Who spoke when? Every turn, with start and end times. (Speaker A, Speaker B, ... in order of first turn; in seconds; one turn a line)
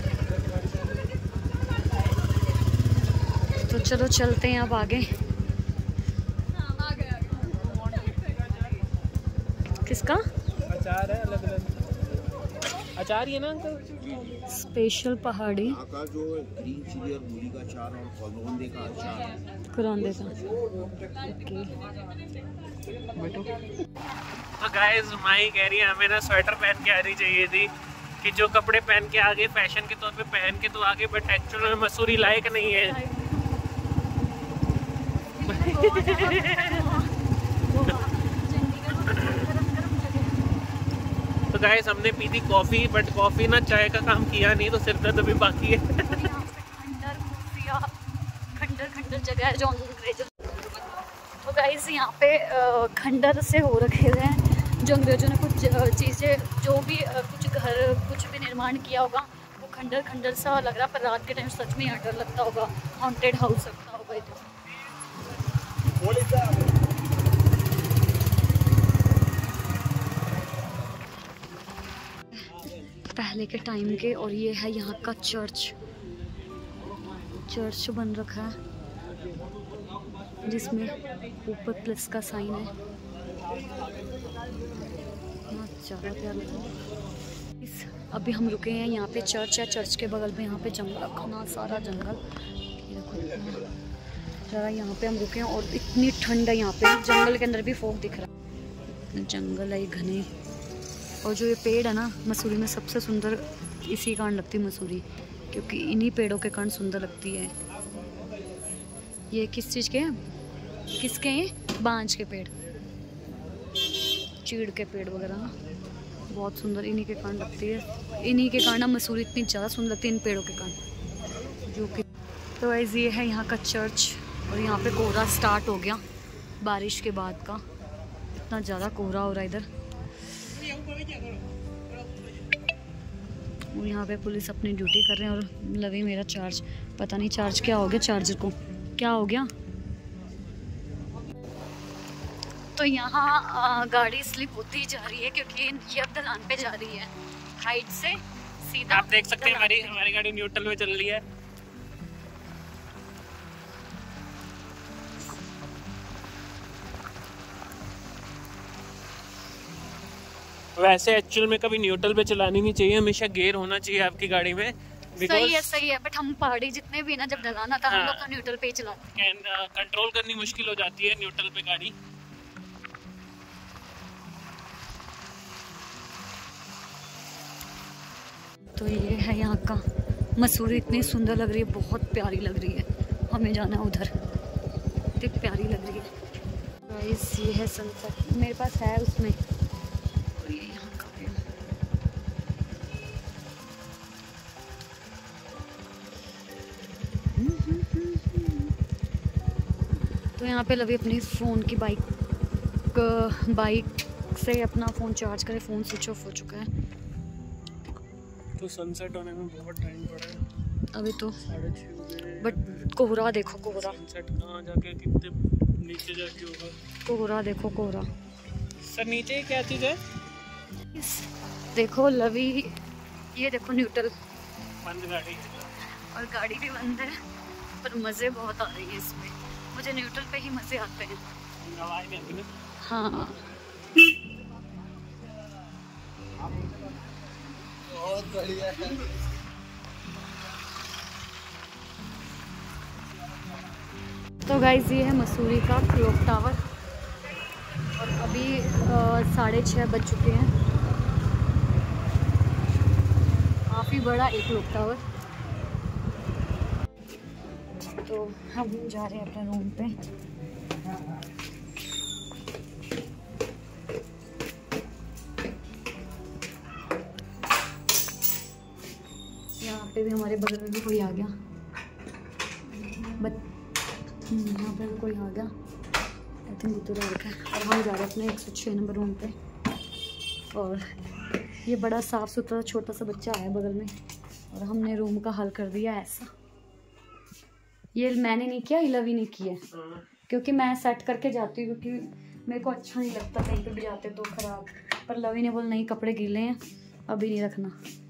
Speaker A: 3.7-5.0
Speaker A: 9.8-10.2
Speaker B: 10.7-11.8
Speaker B: 13.0-13.8
Speaker A: 14.4-15.8
Speaker C: 16.0-19.2
Speaker A: 19.7-20.4
Speaker A: 21.2-21.7
Speaker B: 23.2-23.5
Speaker B: 24.6-33.0
Speaker A: 32.7-33.6
Speaker A: 35.3-40.5
Speaker B: 35.4-37.0
Speaker B: 39.1-39.5
Speaker B: 41.5-46.1
Speaker A: 46.0-47.9
Speaker A: 48.5-50.7
Speaker A: 51.4-64.4
Speaker A: 73.0-75.7
Speaker A: 77.5-78.5
Speaker A: 80.5-82.7
Speaker A: 85.5-86.7
Speaker A: 87.6-93.7
Speaker A: 94.5-98.3
Speaker A: 99.1-100.3
Speaker A: 101.2-107.5
Speaker A: 109.3-110.1
Speaker A: 111.0-112.5
Speaker A: 114.4-115.5
Speaker A: 116.3-120.8
Speaker A: 121.7-122.0
Speaker A: 122.6-126.0
Speaker A: 126.6-127.6
Speaker A: 128.4-129.7
Speaker A: 133.7-139.5
Speaker A: 142.8-150.0
Speaker B: 148.9-151.2
Speaker B: 160.8-165.8
Speaker A: 165.2-169.1
Speaker B: 167.9-168.3
Speaker B: 169.2-171.9
Speaker A: 178.8-179.8
Speaker A: 180.3-184.1
Speaker A: 185.2-186.1
Speaker A: 186.9-189.4
Speaker A: 190.4-191.4
Speaker A: 197.3-198.7
Speaker A: 200.3-202.0
Speaker A: 202.9-206.7
Speaker B: 208.6-210.4
Speaker A: 210.9-211.3
Speaker B: 211.5-212.7
Speaker A: 212.4-214.0
Speaker B: 213.7-216.8
Speaker A: 217.0-218.1
Speaker B: 218.8-220.0
Speaker A: 220.9-222.8
Speaker A: 223.3-224.1
Speaker B: 224.8-225.7
Speaker A: 226.1-227.2
Speaker A: 227.8-231.2
Speaker B: 231.6-232.5
Speaker A: 232.8-233.4
Speaker C: 238.3-238.7
Speaker A: 244.4-246.6
Speaker A: 247.9-250.5
Speaker A: 253.7-255.0
Speaker A: 258.0-259.9
Speaker A: 269.6-271.3
Speaker A: 273.1-273.4
Speaker A: 274.3-275.5
Speaker A: 276.5-279.3
Speaker A: 280.5-280.8
Speaker A: 281.6-283.9
Speaker A: 284.5-286.3
Speaker A: 287.9-289.6
Speaker B: 289.7-290.0
Speaker A: 290.3-297.7